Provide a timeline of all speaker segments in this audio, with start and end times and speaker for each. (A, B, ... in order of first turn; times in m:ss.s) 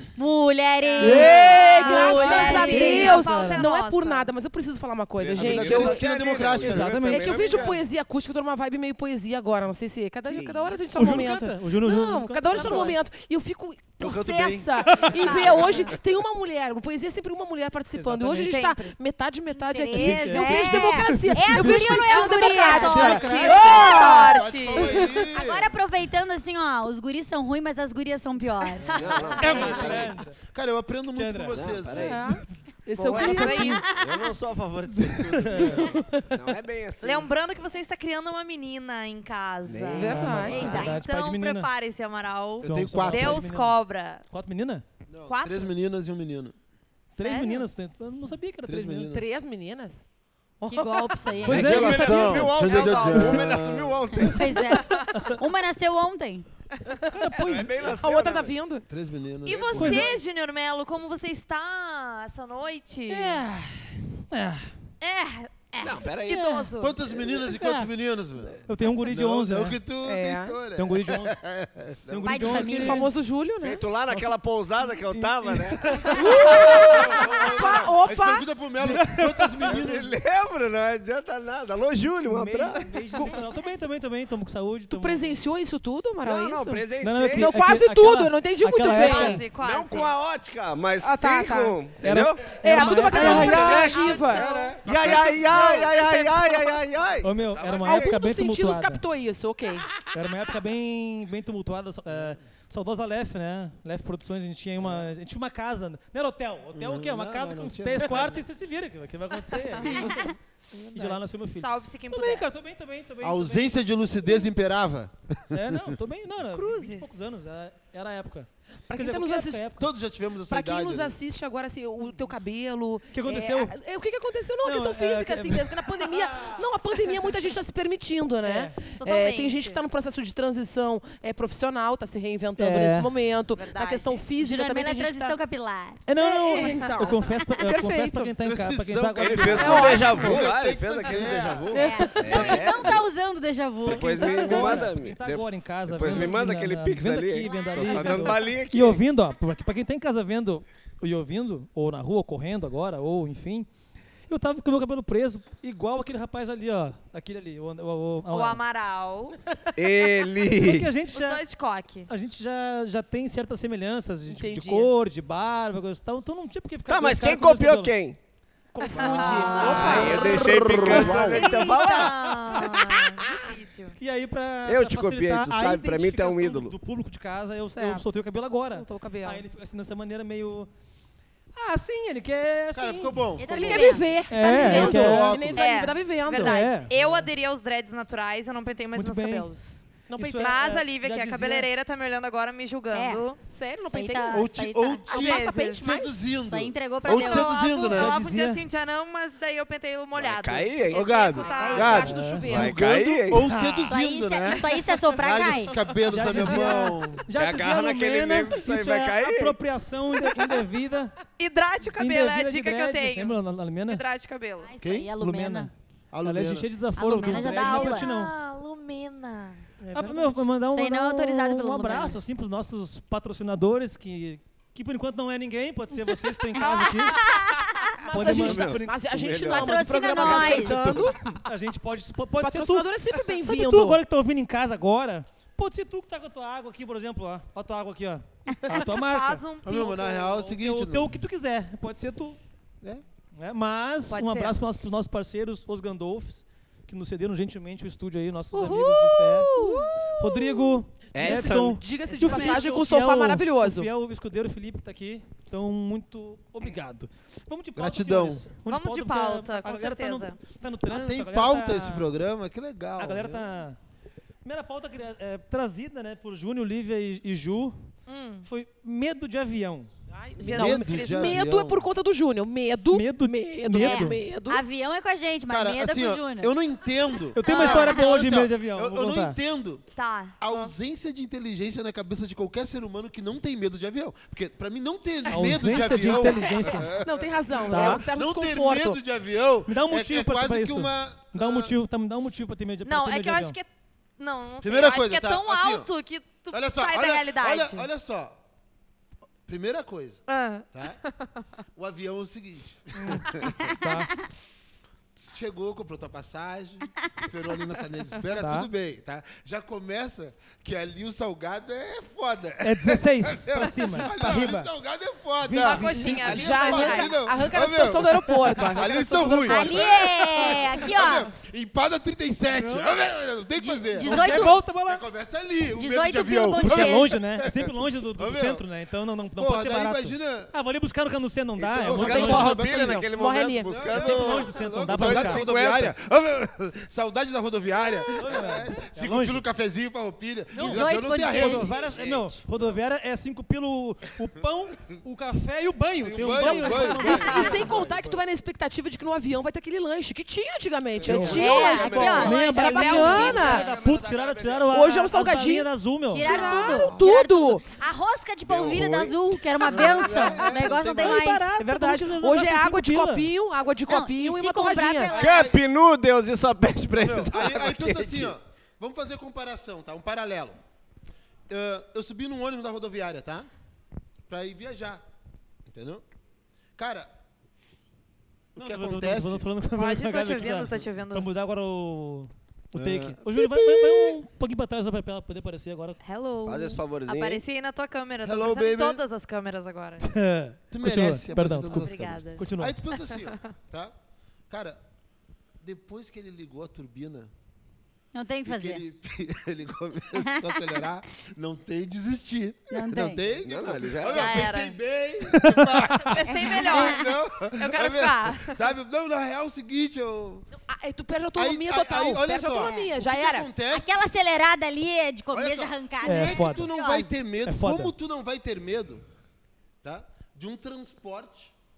0:00.2-0:03.2 A
0:00.8-0:04.3 B
0:01.0-0:06.0 C
0:02.6-0:03.6 D
0:05.2-0:07.8 E
0:05.4-0:07.7 F
0:06.6-0:07.4 D
0:07.1-0:25.1 C
0:10.3-0:11.3 E
0:10.9-0:13.0 D
0:12.6-0:12.9 A
0:14.0-0:15.5 F
0:15.0-0:15.9 B
0:17.9-0:18.5 D
0:18.2-0:18.9 B
0:19.5-0:24.4 A
0:19.9-0:21.8 D
0:21.9-0:25.0 B
0:22.8-0:23.7 D
0:23.4-0:25.7 F
0:25.0-0:30.0 A
0:28.9-0:30.4 D
0:28.9-0:30.2 E
0:28.9-0:30.0 B
0:30.5-0:32.3 F
0:31.2-0:31.6 D
0:31.5-0:32.4 E
0:32.0-0:33.9 C
0:33.0-0:33.7 F
0:33.0-0:33.9 B
0:33.6-0:34.3 A
0:33.9-0:37.3 E
0:35.3-0:36.0 D
0:37.0-0:44.2 B
0:39.6-0:40.9 E
0:39.9-0:40.9 C
0:40.0-0:41.7 D
0:40.5-0:41.0 A
0:42.6-0:43.8 D
0:42.6-0:43.5 F
0:44.3-0:44.8 D
0:45.1-0:46.6 F
0:45.3-0:45.7 B
0:47.2-0:49.1 D
0:47.2-0:47.7 B
0:48.7-0:49.3 F
0:49.1-0:50.1 C
0:50.6-0:51.4 C
0:50.6-0:52.2 A
0:51.4-0:52.2 D
0:51.4-0:54.3 F
0:51.5-0:54.8 E
0:52.3-0:53.6 B
0:54.1-0:56.5 A
0:54.7-0:55.3 B
0:55.1-0:55.4 D
0:57.1-0:58.0 D
0:57.4-0:58.6 E
0:58.0-0:58.8 C
0:58.9-1:00.2 F
0:59.4-1:03.4 B
0:59.7-1:00.2 D
1:03.1-1:04.7 D
1:05.0-1:07.1 B
1:05.8-1:06.7 E
1:06.8-1:12.6 F
1:07.5-1:07.9 D
1:08.7-1:09.8 D
1:10.0-1:10.6 C
1:10.8-1:11.4 D
1:12.1-1:13.1 D
1:12.2-1:13.1 A
1:12.6-1:13.8 C
1:13.6-1:16.4 E
1:14.8-1:16.7 D
1:16.2-1:18.5 C
1:16.6-1:20.2 F
1:18.8-1:19.7 D
1:19.6-1:22.8 E
1:22.3-1:25.4 D
1:24.9-1:29.5 C
1:26.2-1:27.6 E
1:27.0-1:29.5 D
1:28.9-1:30.1 B
1:29.5-1:38.2 E
1:31.0-1:31.8 C
1:32.0-1:33.9 D
1:32.6-1:34.5 C
1:32.7-1:34.8 B
1:33.7-1:35.8 F
1:35.5-1:36.8 C
1:37.2-1:39.0 D
1:37.8-1:39.9 C
1:40.1-1:50.4 D
1:44.8-1:45.1 F
1:46.7-1:48.4 F
1:49.5-1:50.3 B
1:49.9-1:50.3 A
1:50.7-1:51.3 C
1:50.9-1:53.8 D
1:51.5-1:52.5 B
1:53.2-1:55.9 F
1:55.5-1:59.9 D
1:56.6-1:57.1 B
1:58.9-1:59.6 C
1:59.8-2:01.2 F
2:00.5-2:15.4 C
2:03.1-2:03.8 D
2:04.6-2:07.4 D
2:08.4-2:08.8 D
2:09.0-2:09.8 B
2:12.6-2:13.1 D
2:13.5-2:14.3 B
2:14.4-2:16.0 A
2:16.1-2:20.1 D
2:16.2-2:18.3 C
2:16.6-2:17.0 B
2:18.4-2:22.1 F
2:19.2-2:23.1 E
2:19.6-2:20.4 C
2:21.7-2:22.6 C
2:21.7-2:24.8 A
2:23.8-2:29.0 E
2:23.8-2:33.7 D
2:27.4-2:28.5 A
2:34.3-2:38.6 D
2:38.3-2:39.4 B
2:39.8-2:40.9 E
2:40.4-2:41.4 D
2:41.1-2:42.1 B
2:42.1-2:47.9 D
2:44.3-2:44.9 C
2:46.9-2:48.2 E
2:48.8-2:50.7 C
2:48.9-2:54.0 B
2:49.0-2:53.0 D
2:49.6-2:49.9 A
2:49.7-2:52.2 E
2:50.8-2:51.2 F
2:54.0-3:00.7 D
2:54.7-2:56.8 E
2:57.6-2:59.4 C
3:01.6-3:03.2 D
3:02.7-3:05.7 F
3:03.4-3:04.3 A
3:03.5-3:06.6 C
3:04.3-3:05.4 D
3:04.6-3:13.4 B
3:06.4-3:07.2 D
3:09.0-3:09.5 D
3:10.1-3:10.7 C
3:10.2-3:11.7 D
3:12.9-3:13.2 A
3:13.5-3:14.5 C
3:13.8-3:17.8 A
3:14.3-3:18.1 F
3:15.1-3:16.1 C
3:15.1-3:16.0 B
3:17.0-3:22.1 B
3:17.9-3:18.6 D
3:20.2-3:21.4 E
3:20.9-3:27.3 F
3:21.4-3:22.9 C
3:21.4-3:22.1 A
3:22.0-3:22.5 D
3:22.4-3:23.5 E
3:23.4-3:23.9 D
3:23.9-3:25.8 A
3:26.0-3:31.1 D
3:27.3-3:29.6 E
3:31.4-3:34.7 B
3:32.0-3:34.0 D
3:34.6-3:35.7 A
3:34.8-3:35.1 F
3:35.2-3:35.7 D
3:36.1-3:36.7 F
3:36.2-3:38.3 D
3:37.0-3:38.1 A
3:37.4-3:40.2 B
3:39.8-3:47.2 D
3:40.7-3:42.2 A
3:46.6-3:48.0 A
3:48.0-3:51.3 C
3:48.1-3:49.2 D
3:48.2-3:51.2 E
3:49.4-3:51.1 A
3:50.7-3:51.0 F
3:51.4-3:52.9 D
3:52.4-3:54.0 C
3:53.4-3:59.4 D
3:59.0-4:00.4 B
3:59.6-4:01.2 F
4:00.4-4:02.4 D
4:03.4-4:09.5 D
4:04.1-4:04.6 B
4:08.5-4:10.8 A
4:10.1-4:22.1 D
4:11.1-4:11.8 E
4:11.2-4:13.9 C
4:17.8-4:18.5 F
4:18.6-4:20.4 B
4:20.9-4:23.5 F
4:23.0-4:23.8 D
4:24.4-4:27.8 D
4:28.1-4:28.5 B
4:28.5-4:29.9 D
4:30.1-4:34.6 C
4:30.4-4:31.4 B
4:30.4-4:31.9 F
4:32.9-4:34.2 D
4:33.8-4:36.5 A
4:35.5-4:39.9 F
4:37.3-4:39.4 D
4:37.5-4:38.0 A
4:40.0-4:40.7 B
4:40.4-4:51.8 F
4:45.3-4:47.0 D
4:45.9-4:49.0 C
4:47.7-4:48.0 D
4:49.7-4:53.6 D
4:52.8-4:53.7 B
4:54.2-4:57.9 B
4:54.6-4:55.9 F
4:56.5-4:58.4 F
4:59.5-5:01.0 F
5:00.3-5:01.2 B
5:01.8-5:03.8 F
5:02.9-5:03.3 D
5:03.8-5:04.1 D
5:05.2-5:28.7 F
5:08.4-5:08.7 D
5:12.6-5:14.7 D
5:15.4-5:16.4 D
5:15.6-5:17.2 B
5:16.2-5:19.9 C
5:19.5-5:21.3 A
5:22.5-5:22.9 D
5:23.6-5:24.6 A
5:24.0-5:25.0 D
5:25.8-5:27.2 A
5:26.6-5:32.7 D
5:29.4-5:30.5 F
5:31.6-5:35.9 E
5:31.8-5:33.1 F
5:31.9-5:33.7 C
5:33.6-5:41.7 F
5:33.9-5:35.5 D
5:38.1-5:39.4 D
5:40.6-5:47.7 D
5:40.6-5:41.7 A
5:41.4-5:42.4 E
5:46.0-5:48.2 F
5:46.5-5:53.7 C
5:47.0-5:47.5 B
5:51.0-5:54.7 E
5:51.0-5:56.8 D
5:51.3-5:53.5 A
5:52.4-5:53.2 B
5:54.7-5:55.7 C
5:56.1-6:01.5 A
5:56.2-5:57.6 C
5:58.4-5:59.2 E
5:59.6-6:01.2 F
5:59.7-6:00.5 C
6:00.1-6:03.3 D
6:01.6-6:05.2 C
6:03.9-6:05.5 A
6:05.1-6:05.6 F
6:05.1-6:08.3 E
6:07.0-6:10.6 F
6:11.5-6:13.5 F
6:14.3-6:15.0 F
6:15.7-6:16.0 F
6:16.8-6:17.1 F
6:18.6-6:19.5 F
6:18.6-6:26.0 D
6:19.7-6:21.3 B
6:22.8-6:24.2 F
6:26.0-6:30.1 B
6:26.4-6:27.4 E
6:28.2-6:29.0 F
6:30.0-6:32.8 D
6:30.7-6:33.9 F
6:31.7-6:32.5 B
6:33.0-6:33.4 B
6:34.5-6:34.8 F
6:35.6-6:37.3 F
6:38.1-6:38.8 A
6:38.5-6:50.5 F
6:40.2-6:40.8 A
6:42.7-6:43.2 A
6:43.4-6:44.6 E
6:44.1-6:44.8 B
6:45.4-6:46.2 D
6:46.1-6:48.6 B
6:46.3-6:47.1 A
6:50.7-6:53.5 C
6:51.4-6:54.0 F
6:52.6-6:52.9 A
6:53.7-6:57.1 A
6:55.3-6:59.0 F
6:56.0-6:56.7 D
6:57.5-6:57.9 D
6:59.8-7:01.5 F